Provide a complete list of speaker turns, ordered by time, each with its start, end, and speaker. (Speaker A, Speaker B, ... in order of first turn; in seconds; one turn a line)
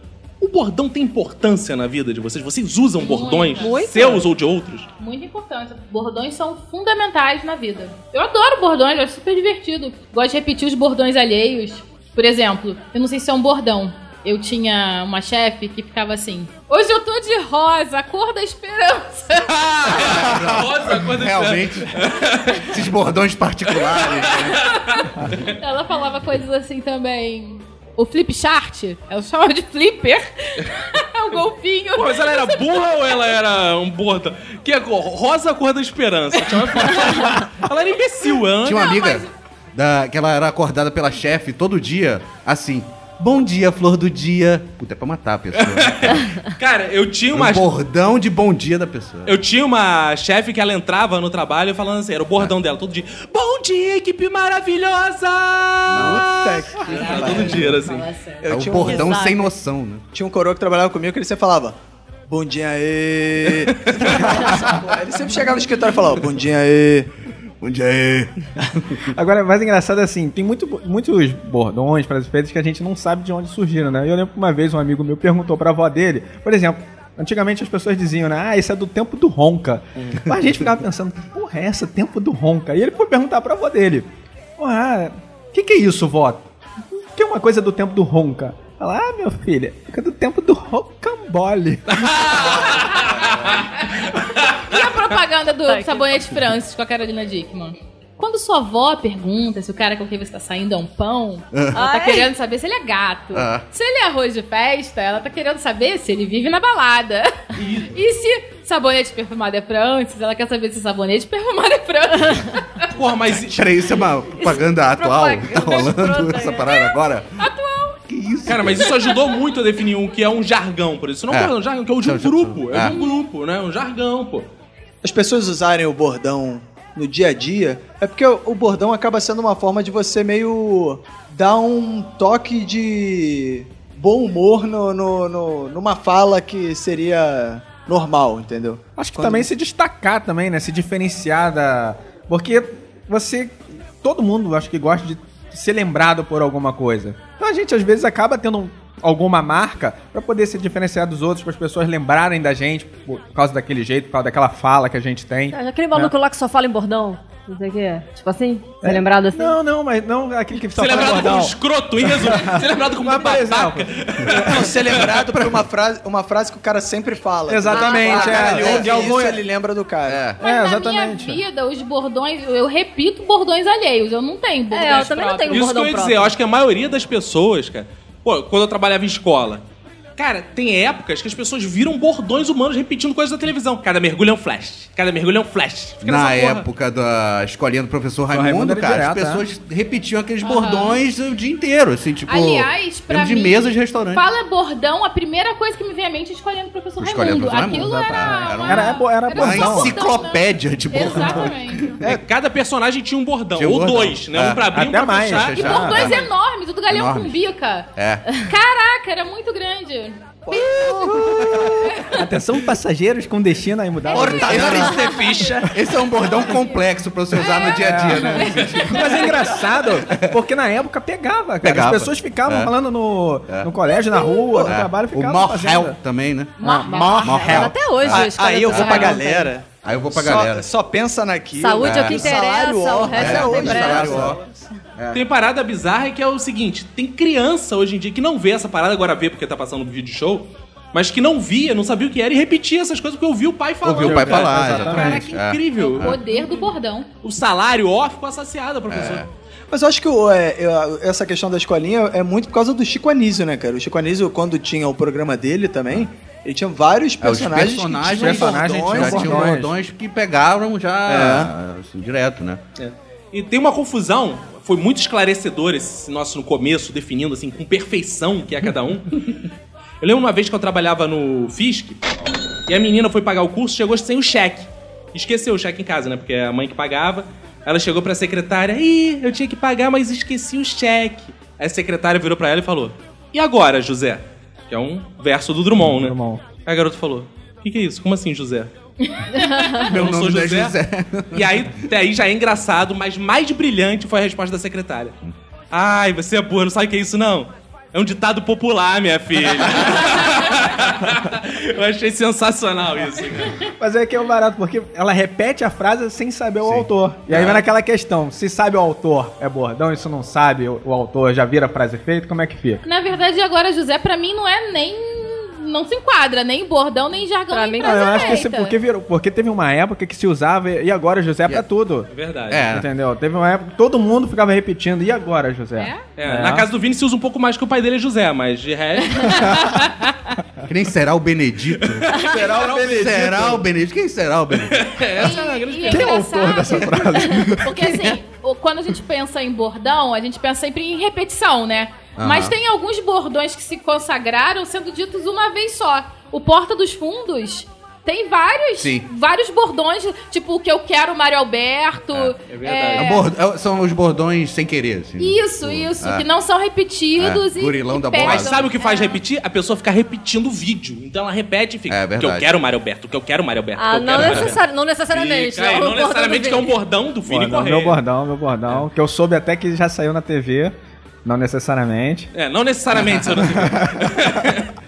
Speaker A: 0.4-4.9
Speaker B: 3.0-4.2
Speaker C: 3.6-4.2
Speaker B: 5.0-19.5
Speaker A: 19.5-22.8
Speaker D: 19.9-24.7
Speaker A: 23.8-25.5
Speaker B: 25.5-32.8
Speaker A: 32.0-39.0
Speaker D: 38.6-46.3
Speaker B: 38.8-39.3
Speaker A: 45.5-47.7
Speaker D: 47.3-49.4
Speaker A: 49.2-58.1
Speaker D: 55.9-56.3
Speaker E: 56.0-59.2
Speaker B: 56.9-58.4
Speaker D: 58.5-60.0
Speaker C: 58.6-59.5
Speaker E: 60.1-61.8
Speaker E: 62.3-67.1
Speaker D: 67.6-68.3
Speaker F: 69.1-86.5
Speaker A: 80.0-80.2
Speaker F: 87.0-92.1
Speaker A: 91.9-94.8
Speaker D: 92.3-93.4
Speaker B: 92.9-94.0
Speaker B: 94.5-107.3
Speaker C: 95.7-96.2
Speaker D: 101.5-101.8
Speaker C: 101.8-102.3
Speaker D: 103.3-103.7
Speaker A: 107.6-107.9
Speaker B: 107.9-112.9
Speaker A: 112.9-113.7
Speaker D: 113.5-117.5
Speaker C: 114.4-116.9
Speaker B: 117.4-118.0
Speaker D: 118.1-119.0
Speaker A: 118.5-124.5
Speaker D: 121.3-123.0
Speaker B: 122.8-123.2
Speaker E: 125.0-139.5
Speaker F: 139.0-156.1
Speaker C: 155.5-159.6
Speaker F: 158.8-161.5
Speaker A: 160.8-165.1
Speaker F: 162.1-164.7
Speaker E: 164.4-170.3
Speaker D: 165.3-165.6
Speaker F: 167.5-169.4
Speaker C: 167.7-168.5
Speaker B: 167.8-168.2
Speaker D: 170.1-170.4
Speaker B: 170.4-175.7
Speaker F: 170.4-171.4
Speaker C: 174.7-176.3
Speaker A: 175.5-179.6
Speaker A: 180.2-186.7
Speaker D: 186.0-194.2
Speaker F: 188.3-189.4
Speaker B: 190.4-191.0
Speaker B: 192.3-202.0
Speaker D: 197.0-202.2
Speaker F: 197.7-199.9
Speaker A: 202.0-205.6
Speaker D: 203.5-204.8
Speaker F: 204.7-206.1
Speaker D: 205.3-206.3
Speaker B: 205.5-207.9
Speaker D: 206.9-207.4
Speaker D: 208.0-208.3
Speaker B: 208.4-212.2
Speaker E: 210.4-211.7
Speaker D: 210.6-211.7
Speaker F: 211.5-215.0
Speaker E: 214.1-215.7
Speaker B: 214.1-215.6
Speaker D: 214.5-215.0
Speaker D: 215.7-219.3
Speaker B: 216.3-216.6
Speaker B: 217.4-219.5
Speaker F: 217.7-226.0
Speaker D: 220.1-220.3
Speaker D: 221.6-222.7
Speaker D: 223.5-223.7
Speaker E: 224.5-224.8
Speaker D: 224.5-226.6
Speaker B: 226.6-227.6
Speaker F: 226.6-227.0
Speaker C: 226.6-229.5
Speaker E: 226.9-234.5
Speaker D: 227.2-229.1
Speaker D: 229.8-230.7
Speaker C: 231.6-234.3
Speaker D: 231.8-232.3
Speaker D: 233.1-234.4
Speaker D: 235.0-235.2
Speaker A: 235.1-246.7
Speaker D: 243.8-246.2
Speaker F: 244.0-245.2
Speaker B: 244.9-247.1
Speaker A: 247.2-249.2
Speaker D: 248.9-249.3
Speaker E: 249.7-259.5
Speaker D: 257.2-262.6
Speaker F: 258.1-259.8
Speaker E: 261.1-261.5
Speaker A: 262.8-269.4
Speaker A: 270.0-272.0
Speaker A: 272.7-288.7
Speaker F: 285.8-286.4
Speaker B: 289.0-289.8
Speaker D: 289.8-291.7
Speaker A: 289.9-290.8
Speaker A: 291.3-295.2
Speaker A: 295.7-303.6
Speaker F: 303.8-312.8
Speaker D: 306.6-307.6
Speaker B: 312.8-318.8
Speaker C: 317.5-318.4
Speaker F: 317.8-322.1
Speaker A: 321.5-322.7
Speaker D: 322.5-322.9
Speaker F: 322.7-326.7
Speaker B: 325.8-326.1
Speaker A: 326.2-329.8
Speaker D: 330.7-335.0
Speaker A: 331.8-333.1
Speaker F: 332.3-333.6
Speaker A: 334.6-336.1
Speaker B: 335.1-353.3
Speaker F: 335.9-338.0
Speaker D: 342.2-342.6
Speaker D: 348.8-349.1
Speaker A: 352.5-353.1
Speaker D: 352.9-356.2
Speaker B: 355.2-359.2
Speaker D: 357.2-358.7
Speaker A: 358.2-368.0
Speaker D: 361.9-362.5
Speaker C: 363.8-366.8
Speaker D: 364.1-364.5
Speaker F: 367.3-372.3
Speaker A: 372.3-374.7
Speaker F: 373.6-373.9